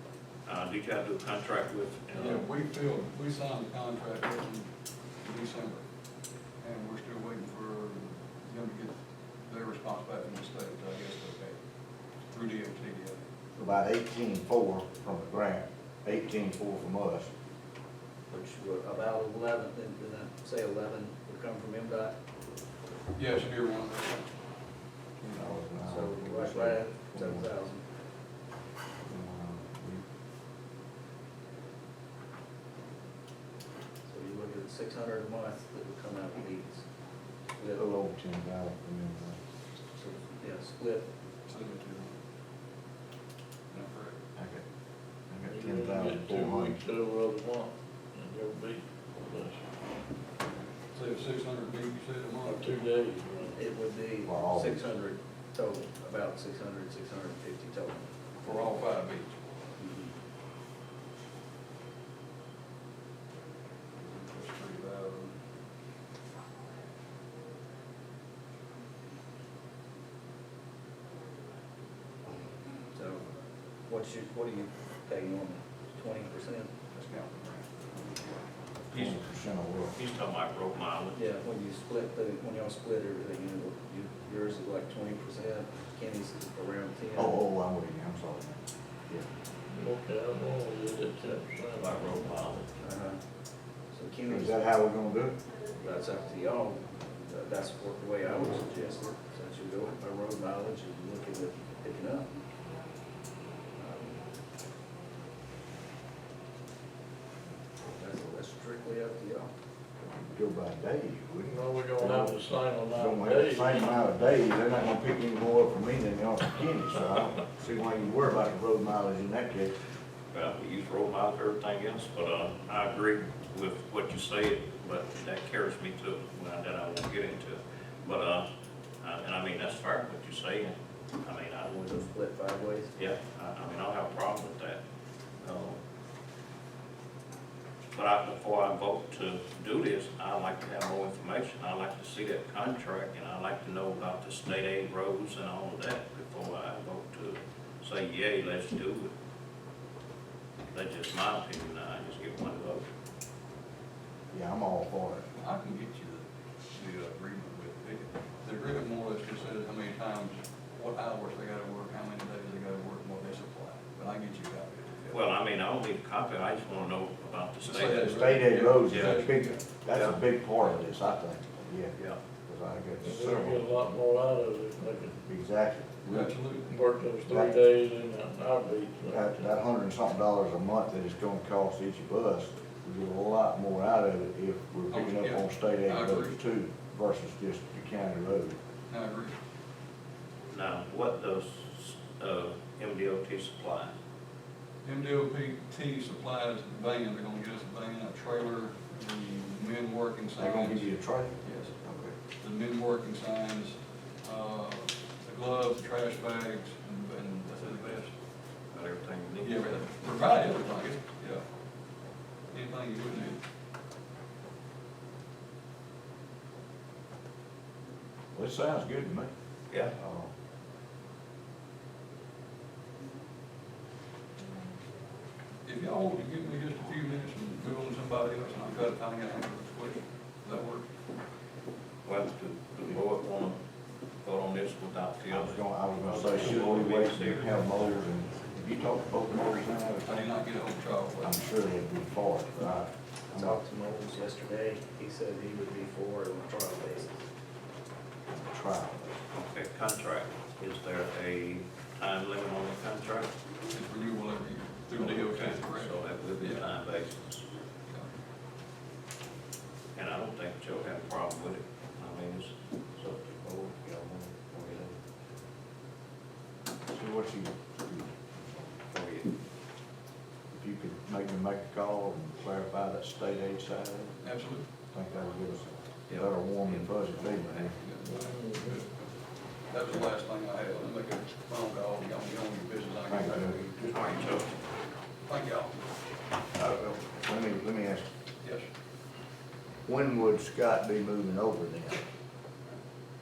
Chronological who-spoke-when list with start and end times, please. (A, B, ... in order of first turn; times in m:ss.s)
0:00.4-0:02.4 A
0:02.1-0:04.7 B
0:05.2-0:05.8 B
0:06.6-0:11.6 B
0:12.3-0:13.2 B
0:13.6-0:17.3 C
0:18.3-0:22.1 D
0:23.1-0:24.3 B
0:25.3-0:27.5 C
0:25.8-0:27.8 D
0:29.0-0:30.0 C
0:34.1-0:36.8 D
0:37.6-0:37.8 D
0:37.8-0:39.4 C
0:39.9-0:41.0 D
0:41.5-0:42.1 B
0:43.7-0:44.2 B
0:44.4-0:44.6 C
0:45.3-0:46.8 C
0:45.4-0:49.6 E
0:50.6-0:52.7 B
0:52.4-0:53.6 E
0:53.5-0:58.1 D
0:54.2-0:54.9 C
0:58.4-0:59.4 B
0:59.8-1:00.1 D
1:04.0-1:05.3 B
1:12.9-1:13.2 D
1:13.9-1:16.7 D
1:16.9-1:18.4 B
1:18.9-1:20.0 C
1:18.9-1:19.2 A
1:19.9-1:21.2 A
1:21.1-1:27.4 D
1:27.1-1:29.2 C
1:29.7-1:32.0 E
1:31.8-1:32.6 A
1:32.8-1:33.2 D
1:33.9-1:34.6 D
1:34.3-1:35.4 C
1:35.7-1:42.3 D
1:43.8-1:44.2 D
1:47.9-1:49.5 D
1:50.0-1:52.4 C
1:51.4-1:53.7 E
1:53.0-1:59.7 C
2:00.3-2:08.4 A
2:09.0-2:12.0 A
2:11.8-2:12.9 D
2:12.9-2:14.8 A
2:15.4-2:15.8 A
2:17.9-2:29.1 A
2:30.7-2:32.8 A
2:34.3-2:35.3 C
2:35.3-2:45.1 B
2:45.1-2:48.2 A
2:47.6-2:49.6 B
2:48.0-2:51.9 C
2:48.9-2:49.2 A
2:52.4-2:53.7 C
2:53.0-2:55.2 E
2:55.3-2:56.3 C
2:56.1-2:56.7 B
2:56.7-2:59.4 E
2:59.1-3:08.6 C
3:04.9-3:06.4 B
3:08.9-3:09.4 B
3:10.5-3:13.9 A
3:14.8-3:20.9 B
3:20.4-3:22.1 C
3:21.4-3:21.7 B
3:22.4-3:28.1 B
3:28.7-3:29.6 A
3:29.4-3:31.4 B
3:32.5-3:33.4 B
3:38.3-3:39.3 C
3:39.9-3:40.3 C
3:45.6-3:50.8 B
3:52.0-3:53.6 A
3:54.2-3:58.0 A
3:55.3-4:00.4 C
4:00.0-4:01.4 B
4:01.2-4:03.6 C
4:03.3-4:07.2 D
4:08.3-4:09.1 C
4:09.3-4:13.3 A
4:13.7-4:16.7 B
4:15.0-4:17.4 A
4:19.9-4:24.9 A
4:26.9-4:28.2 C
4:28.9-4:29.3 A
4:30.5-4:34.1 C
4:34.2-4:34.6 B
4:34.9-4:37.7 C
4:36.1-4:37.7 A
4:37.8-4:38.9 B
4:38.1-4:38.8 E
4:39.7-4:44.2 B
4:43.1-4:43.6 C
4:43.9-4:44.5 A
4:45.2-4:45.8 B
4:46.5-4:48.0 C
4:49.8-4:52.0 C